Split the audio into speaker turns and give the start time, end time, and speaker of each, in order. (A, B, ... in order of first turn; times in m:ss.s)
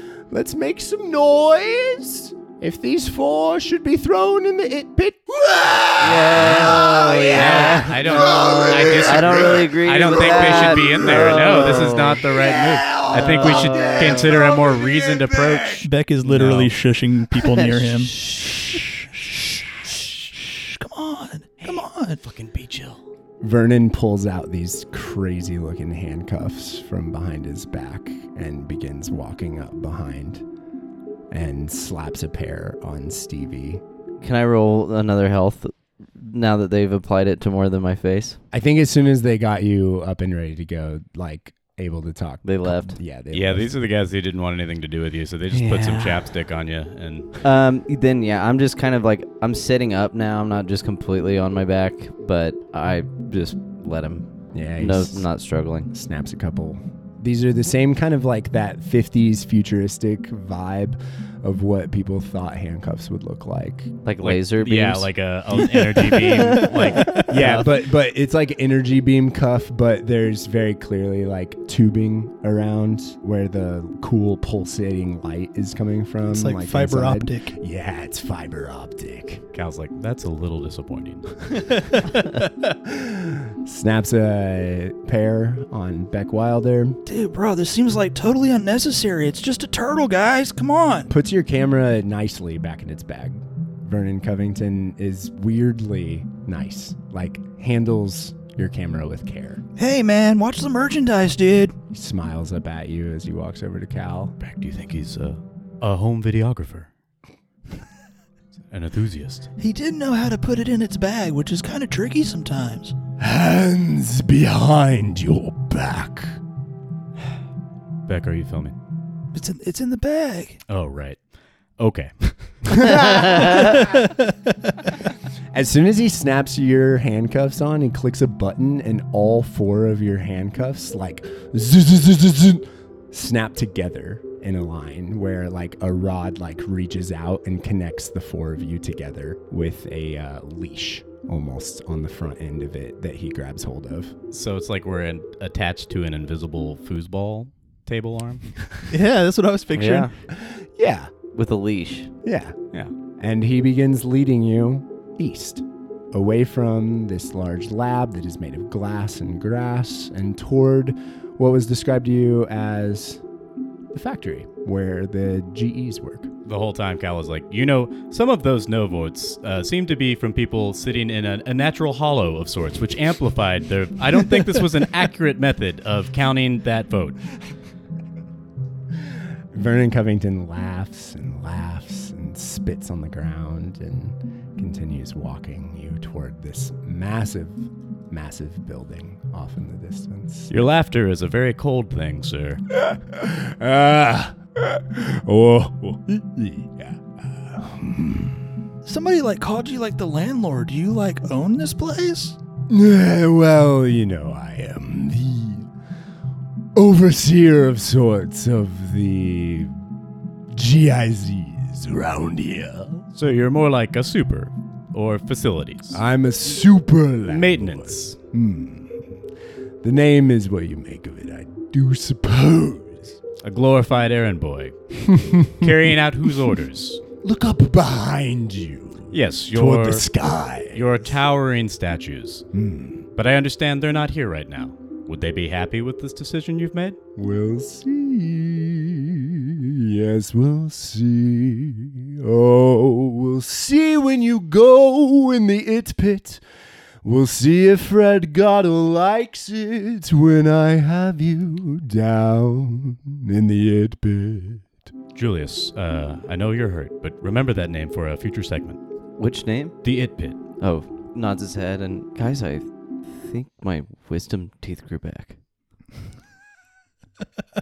0:00.3-0:15.8 A
0:06.0-0:12.2 B
0:06.0-0:16.7 C
0:13.1-0:14.3 B
0:15.8-0:18.8 D
0:17.4-0:18.6 B
0:20.3-0:22.2 D
0:21.6-0:23.0 C
0:23.4-0:30.4 A
0:31.3-0:33.8 A
0:34.2-0:38.4 B
0:38.5-0:43.7 A
0:42.4-0:43.0 B
0:43.3-0:47.3 C
0:45.5-0:46.2 B
0:47.4-0:55.9 B
0:54.5-0:55.3 A
0:55.9-1:03.9 A
1:04.0-1:05.1 B
1:04.2-1:07.7 C
1:06.4-1:07.3 D
1:06.4-1:19.4 A
1:16.3-1:17.5 D
1:19.5-1:21.3 C
1:22.8-1:27.0 A
1:27.0-1:31.1 D
1:31.1-1:39.6 A
1:39.8-1:41.7 D
1:41.9-1:44.3 A
1:44.4-1:46.9 C
1:48.7-1:49.5 C
1:49.6-1:52.9 D
1:53.2-1:56.4 A
1:58.1-1:58.7 C
1:59.3-2:00.6 D
2:00.7-2:01.2 C
2:01.8-2:02.6 C
2:02.7-2:03.9 A
2:03.1-2:03.6 B
2:03.8-2:04.5 D
2:05.5-2:24.1 A
2:24.3-2:28.6 C
2:28.9-2:30.1 D
2:29.7-2:30.1 B
2:30.3-2:31.1 A
2:31.3-2:32.1 B
2:32.2-2:32.6 A
2:33.2-2:43.2 A
2:43.9-2:46.3 A
2:46.4-2:57.2 C
2:59.0-3:10.5 A
3:10.5-3:12.6 C
3:12.7-3:18.5 A
3:18.8-3:22.4 D
3:22.7-3:25.7 A
3:26.7-3:29.7 A
3:30.5-3:33.0 A
3:33.1-3:36.0 C
3:35.9-3:39.1 A
3:37.3-3:38.2 C
3:39.8-3:43.2 A
3:43.4-3:44.8 C
3:45.0-3:45.9 A
3:45.5-3:47.0 C
3:47.2-3:51.1 A
3:49.1-3:50.1 C
3:50.7-3:52.4 C
3:52.5-3:53.1 A
3:53.2-3:57.0 C
3:57.2-4:06.4 A
4:07.0-4:14.7 A
4:15.1-4:18.8 C
4:19.2-4:19.8 B
4:19.8-4:20.4 C
4:20.6-4:25.4 B